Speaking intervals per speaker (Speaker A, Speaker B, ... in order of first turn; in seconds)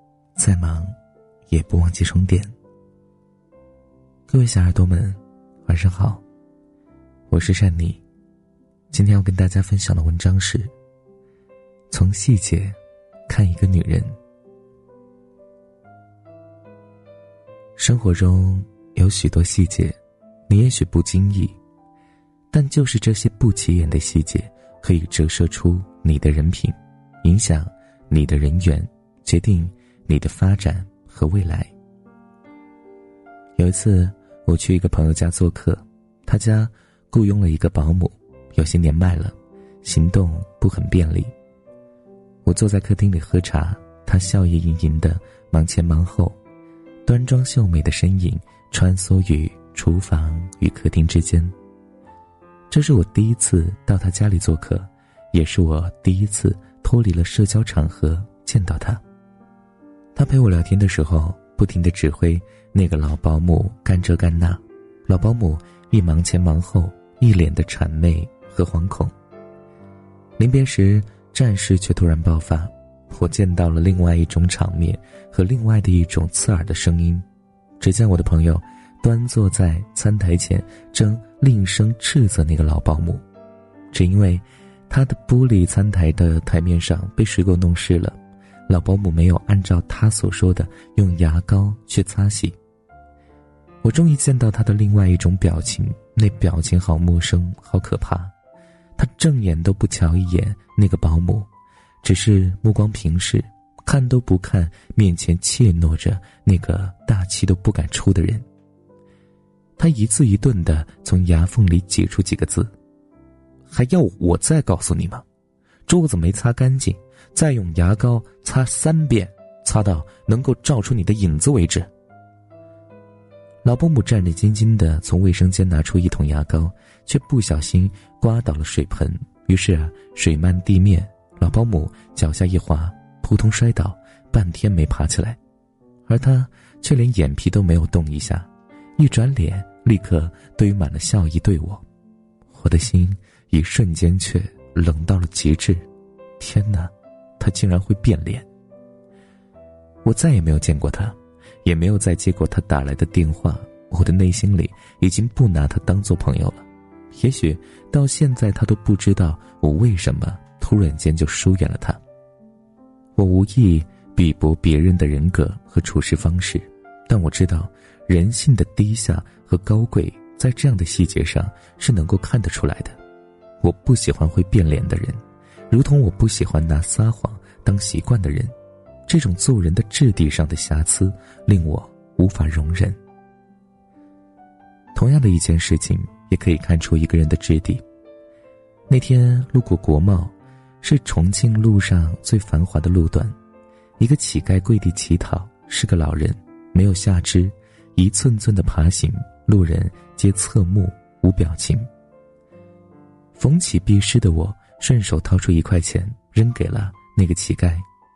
Speaker A: 0.3-0.9, 1.5-2.5, 4.3-6.2, 7.3-8.0, 8.9-10.7, 11.9-12.8, 13.3-14.2, 17.8-21.6, 22.5-31.7, 33.6-41.3, 42.5-46.4, 47.1-51.5, 52.7-59.0, 60.1-69.1, 70.4-77.2, 77.8-83.2, 83.9-88.2, 88.7-92.6, 93.8-98.3, 99.0-101.5, 102.0-108.5, 109.8-112.7, 113.7-115.2, 115.9-121.9, 123.6-135.4, 136.1-141.8, 142.5-145.9, 146.4-148.5, 150.1-162.0, 163.2-173.0, 173.6-178.5, 179.1-183.0, 184.9-187.8, 188.9-193.3, 194.0-201.9, 203.4-207.9